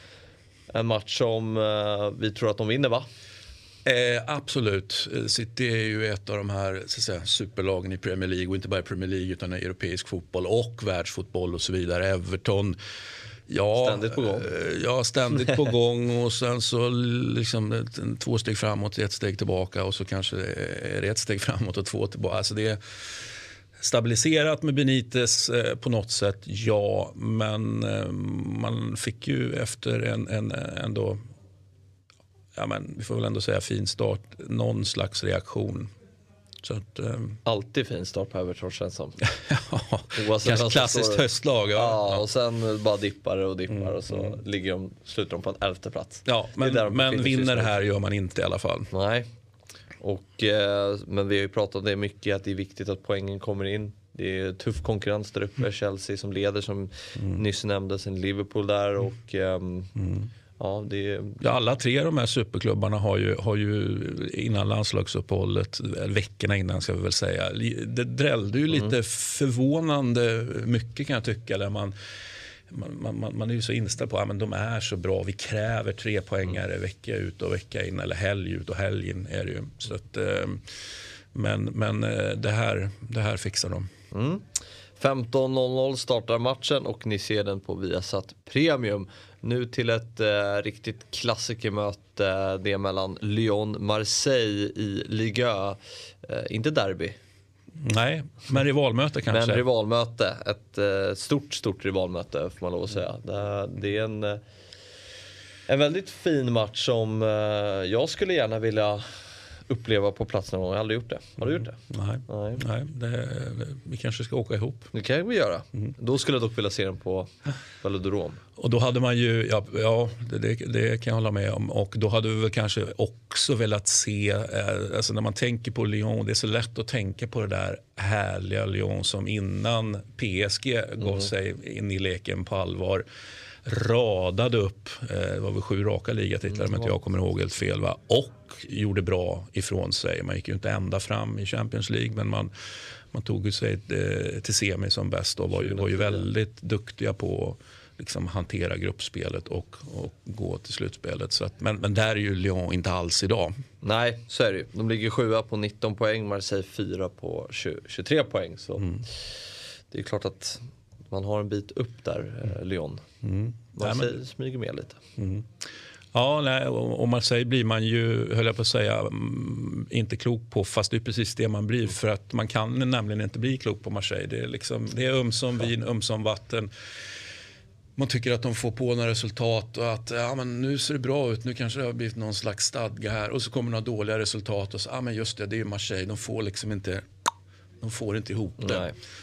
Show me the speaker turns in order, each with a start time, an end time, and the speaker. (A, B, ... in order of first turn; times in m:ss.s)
0:00.7-0:03.1 A
0:03.8-0:12.8 B
0:13.5-0:22.8 B
0:13.8-0:14.5 A
0:23.8-0:31.2 B
0:32.6-0:35.9 B
0:36.6-0:37.4 B
0:37.5-0:39.2 A
0:39.3-0:42.2 B
0:40.1-0:47.7 A
0:46.3-0:48.9 B
0:48.9-0:49.3 A
0:50.0-1:01.4 A
1:01.4-1:11.9 B
1:12.7-1:20.6 B
1:21.3-1:23.9 B
1:24.1-1:24.4 A
1:25.0-1:37.2 A
1:37.8-1:39.6 B
1:39.3-1:44.4 A
1:45.7-1:49.0 A
1:49.7-1:52.6 A
1:51.8-1:54.9 B
1:54.9-1:58.4 A
1:58.6-2:13.0 B
2:13.6-2:22.5 B
2:23.1-2:33.5 B
2:25.6-2:26.2 A
2:33.8-2:39.2 A
2:39.9-2:43.0 A
2:43.2-2:44.2 B
2:43.8-2:45.0 A
2:45.2-2:45.5 B
2:46.1-2:56.7 B
2:58.0-3:07.0 B
3:07.8-3:08.9 B
3:08.6-3:09.0 A